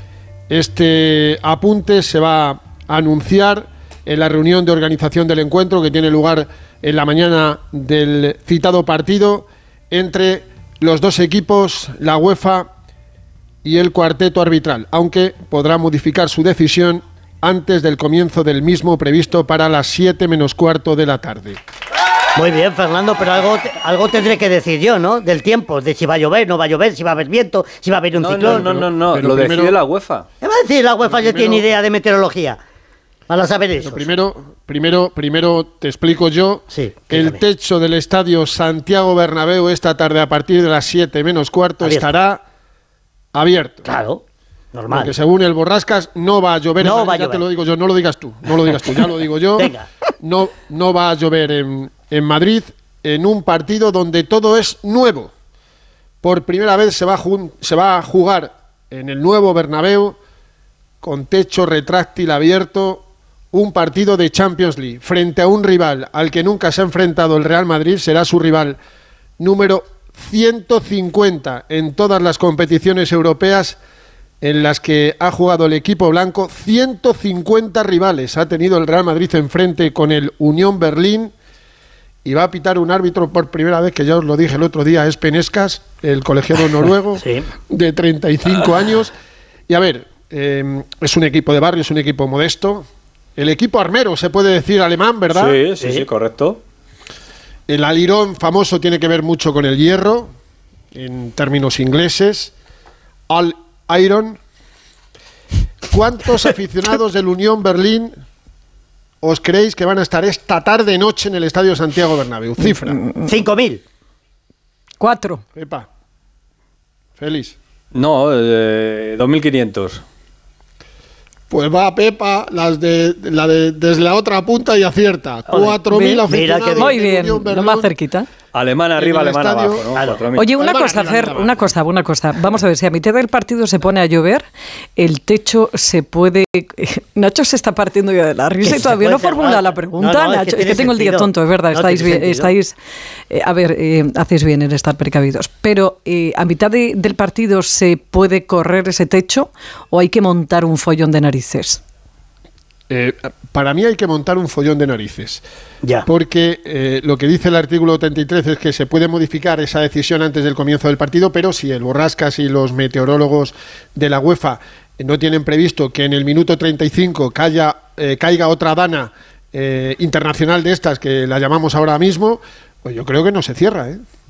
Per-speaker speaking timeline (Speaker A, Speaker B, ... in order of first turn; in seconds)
Speaker A: 0.5-12.7, 13.6-21.6, 28.4-29.8, 31.4-31.6, 33.8-42.4, 43.3-43.9, 44.9-55.3, 56.2-60.2, 61.0-68.8, 69.4-73.8, 74.4-81.3, 82.2-89.1, 89.7-92.8, 93.4-95.6, 97.7-100.3, 100.9-102.5, 103.3-104.4, 105.9-108.1, 109.2-113.0, 115.5-115.9, 117.2-117.5, 121.5-127.9, 128.9-131.7, 152.9-155.4, 156.1-174.0
Speaker B: 22.3-28.8, 30.4-32.6, 33.3-34.1, 36.7-37.4, 41.8-42.1, 43.8-44.2, 44.7-45.1, 46.8-47.4, 48.7-49.0, 49.6-49.9, 87.2-87.5, 95.8-96.0, 113.2-113.8, 125.5-126.9, 129.9-130.3, 138.6-142.5
Speaker C: 28.2-30.2, 95.3-96.6, 117.9-120.0, 128.5-130.4
Speaker D: 112.8-113.3, 115.0-115.4, 125.9-126.2, 126.7-128.3, 130.3-134.4, 135.0-142.8, 143.3-151.8